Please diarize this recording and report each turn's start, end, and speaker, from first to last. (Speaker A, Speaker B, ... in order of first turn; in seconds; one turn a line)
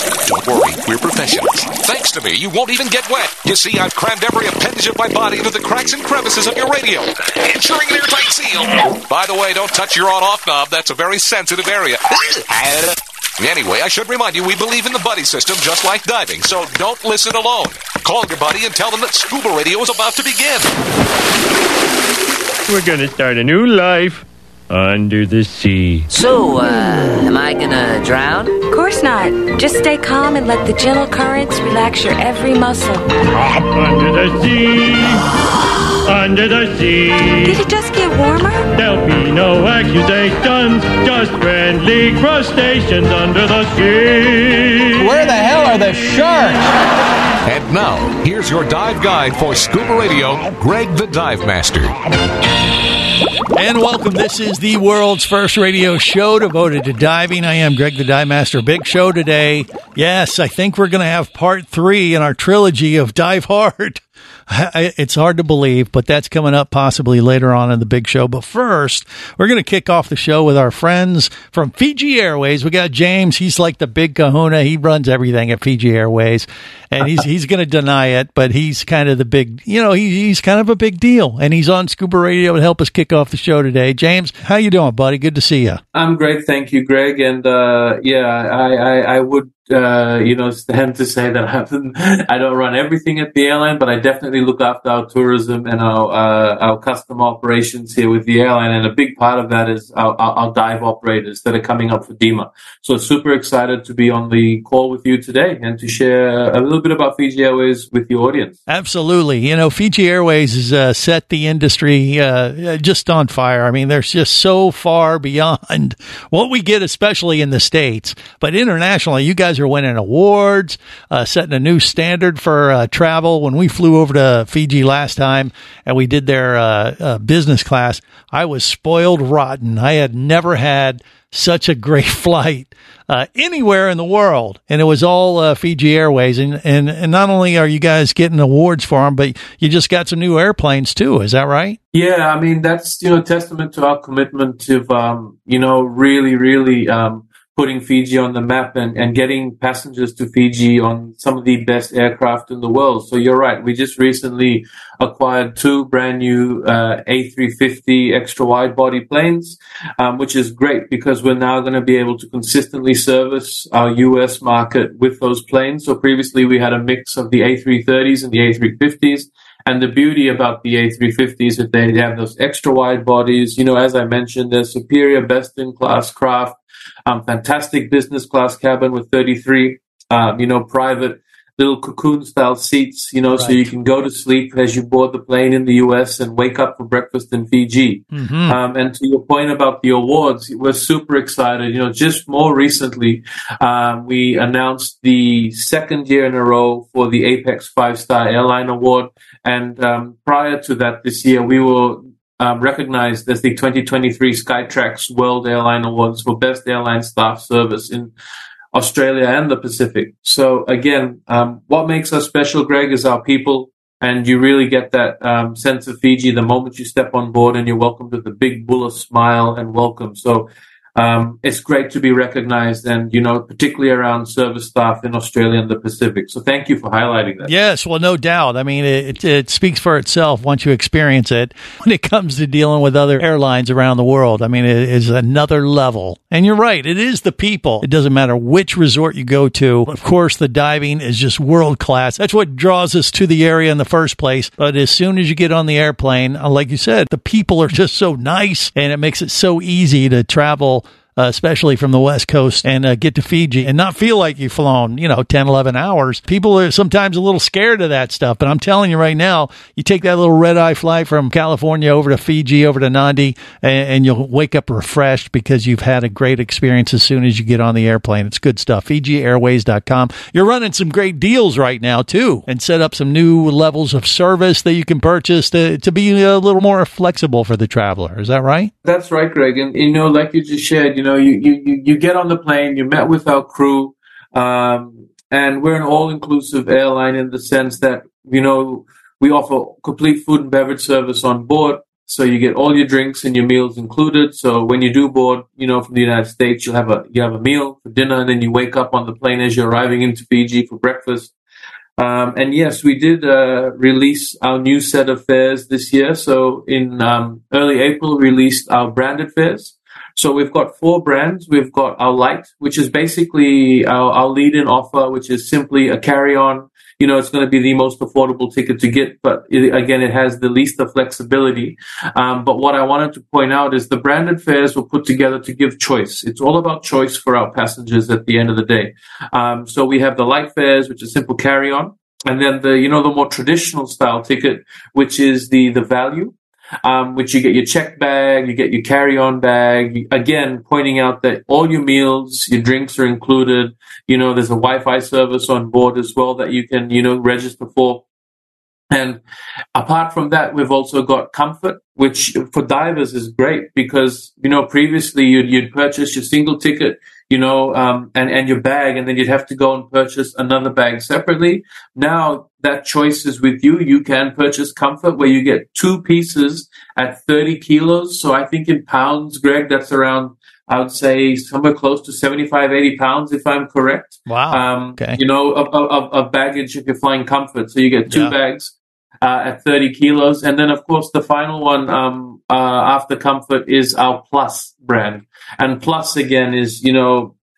Speaker A: 0.2-12.6
Speaker A: 13.4-20.7
Speaker B: 22.7-26.1
Speaker C: 26.1-28.6
Speaker D: 28.7-33.1
Speaker B: 33.4-35.3
Speaker B: 36.1-37.6
Speaker D: 37.4-38.7
Speaker B: 38.8-45.1
Speaker A: 47.4-52.0
Speaker E: 53.5-85.8
Speaker F: 85.9-108.6
Speaker E: 108.7-141.8
Speaker F: 141.9-208.1
Speaker E: 183.3-183.7
Speaker E: 188.1-188.6
Speaker F: 208.7-227.5
Speaker E: 227.4-278.7
Speaker F: 278.8-301.3
Speaker F: 302.0-348.0
Speaker F: 348.9-349.2
Speaker F: 349.8-387.3
Speaker E: 374.3-375.2